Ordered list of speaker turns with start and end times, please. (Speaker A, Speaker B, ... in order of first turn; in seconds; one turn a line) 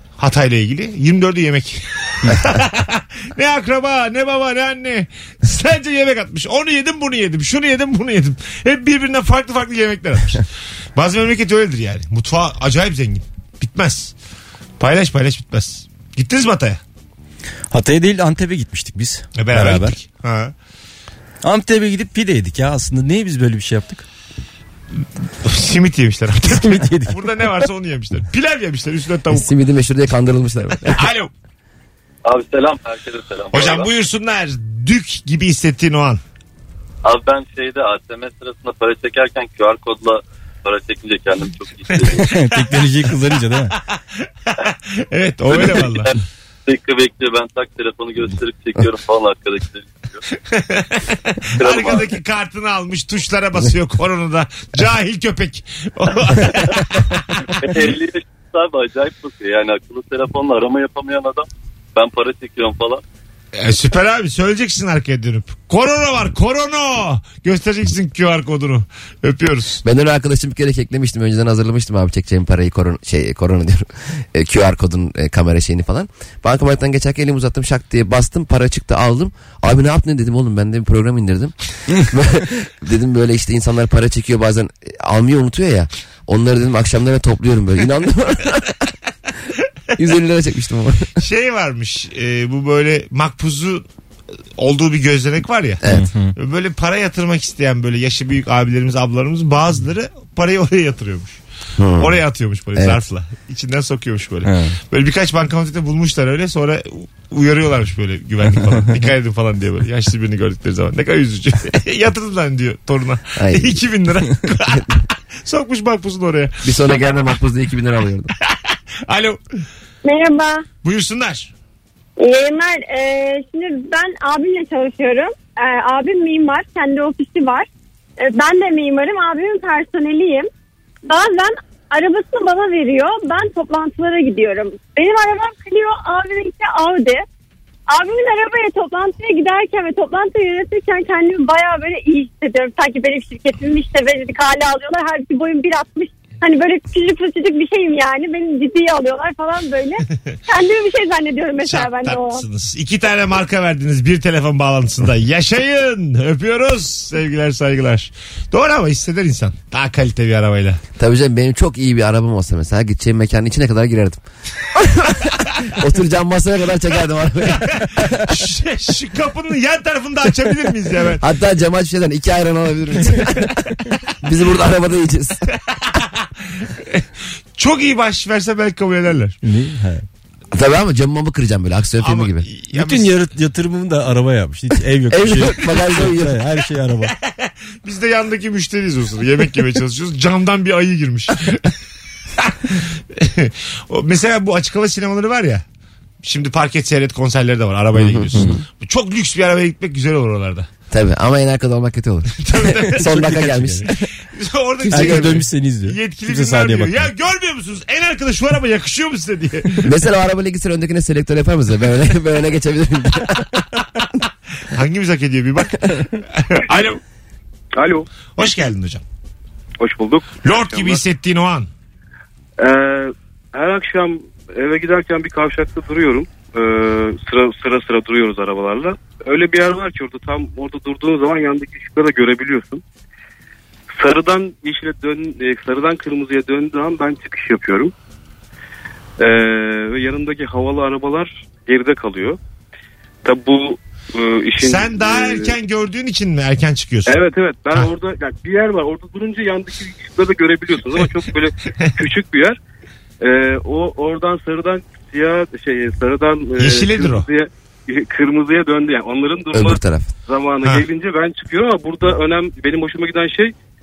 Speaker A: 0.2-10.4
Speaker A: 10.9-14.1
Speaker A: 14.8-16.8
Speaker B: 17.7-19.9
Speaker A: 19.4-20.5
Speaker B: 21.4-24.0
Speaker A: 25.4-29.5
Speaker B: 26.5-27.1
Speaker C: 29.3-31.0
Speaker A: 30.9-31.3
Speaker D: 32.2-33.9
Speaker A: 33.5-36.2
Speaker D: 37.0-42.2
Speaker B: 42.2-43.7
Speaker A: 45.0-46.1
Speaker D: 45.5-46.1
Speaker D: 46.7-50.2
Speaker A: 50.5-57.1
Speaker D: 51.6-52.1
Speaker D: 57.6-63.0
Speaker A: 63.5-69.8
Speaker C: 69.8-88.8
Speaker C: 90.0-91.1
Speaker A: 91.2-93.8
Speaker A: 94.6-95.8
Speaker B: 95.9-96.3
Speaker A: 96.4-101.4
Speaker C: 101.8-102.2
Speaker A: 102.0-114.9
Speaker B: 104.4-104.8
Speaker C: 113.4-113.8
Speaker A: 115.4-116.7
Speaker C: 116.6-118.3
Speaker A: 118.5-119.4
Speaker E: 120.0-120.7
Speaker A: 120.8-121.5
Speaker E: 122.2-127.7
Speaker E: 128.2-130.5
Speaker E: 131.0-137.2
Speaker E: 137.9-152.4
Speaker A: 151.6-160.8
Speaker C: 161.0-164.2
Speaker C: 164.7-168.2
Speaker A: 167.5-171.2
Speaker C: 171.2-173.5
Speaker C: 174.2-175.4
Speaker A: 175.7-177.0
Speaker A: 177.6-179.4
Speaker B: 179.4-180.1
Speaker C: 180.5-182.4
Speaker A: 182.0-183.1
Speaker B: 182.7-187.1
Speaker C: 185.1-186.4
Speaker A: 187.3-191.7
Speaker A: 192.4-195.6
Speaker A: 196.2-200.7
Speaker C: 198.0-198.3
Speaker B: 198.3-198.6
Speaker C: 200.9-204.1
Speaker A: 202.4-203.1
Speaker B: 203.1-203.9
Speaker A: 204.3-209.9
Speaker C: 204.9-205.4
Speaker B: 204.9-207.1
Speaker C: 209.8-213.6
Speaker A: 214.7-217.0
Speaker F: 217.8-218.1
Speaker A: 218.4-219.0
Speaker F: 219.8-221.0
Speaker A: 220.4-221.7
Speaker F: 222.6-232.8
Speaker F: 233.9-237.9
Speaker F: 239.2-242.4
Speaker F: 243.2-245.5
Speaker A: 244.6-247.2
Speaker F: 247.1-252.6
Speaker F: 253.2-263.5
Speaker A: 256.6-257.3
Speaker C: 259.5-260.1